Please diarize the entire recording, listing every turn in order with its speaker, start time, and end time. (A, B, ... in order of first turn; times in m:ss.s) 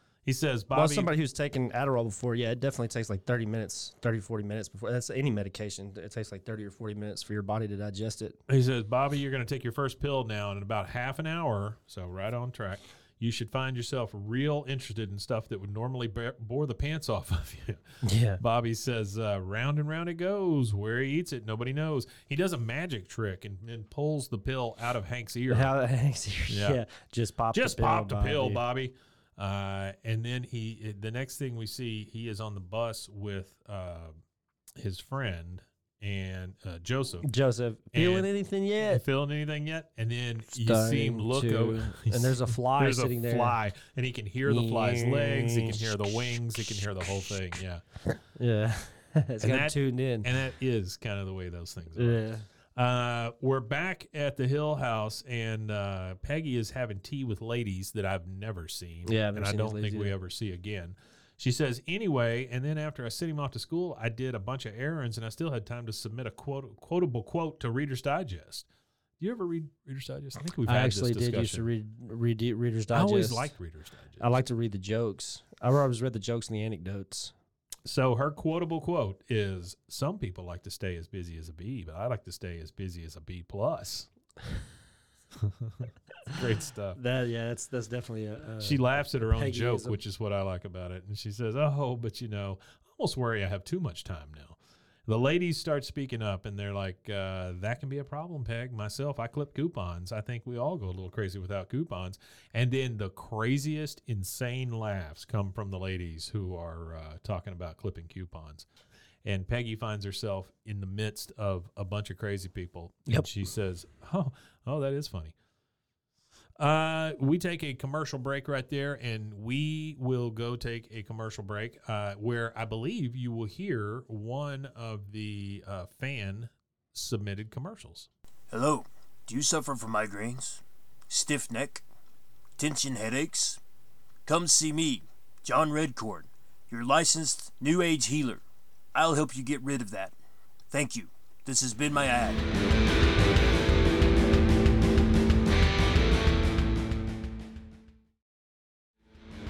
0:00.2-0:01.1 A
0:00.7-0:08.4 B
0:08.5-0:17.8 A
0:18.0-0:18.4 B
0:18.4-0:25.7 A
0:25.5-0:28.6 B
0:26.5-0:26.8 A
0:27.5-0:34.2 A
0:34.8-0:37.3 A
0:37.2-0:39.0 B
0:37.9-0:38.3 A
0:38.8-0:47.8 A
0:40.6-0:43.6 B
0:44.4-0:45.9 B
0:48.4-0:50.3 B
0:49.4-0:52.2 A
0:52.0-0:52.4 B
0:52.7-1:08.7 A
0:59.1-1:00.1 B
1:09.2-1:11.7 A
1:10.6-1:13.5 B
1:12.9-1:14.3 A
1:14.2-1:17.3 B
1:17.8-1:24.1 A
1:25.4-1:27.0 A
1:27.0-1:30.0 B
1:28.6-1:48.6 A
1:49.2-1:55.3 A
1:56.6-2:08.1 A
2:08.5-2:11.8 C
2:12.6-2:13.6 C
2:14.2-2:18.4 C
2:18.9-2:20.1 C
2:20.7-2:22.4 C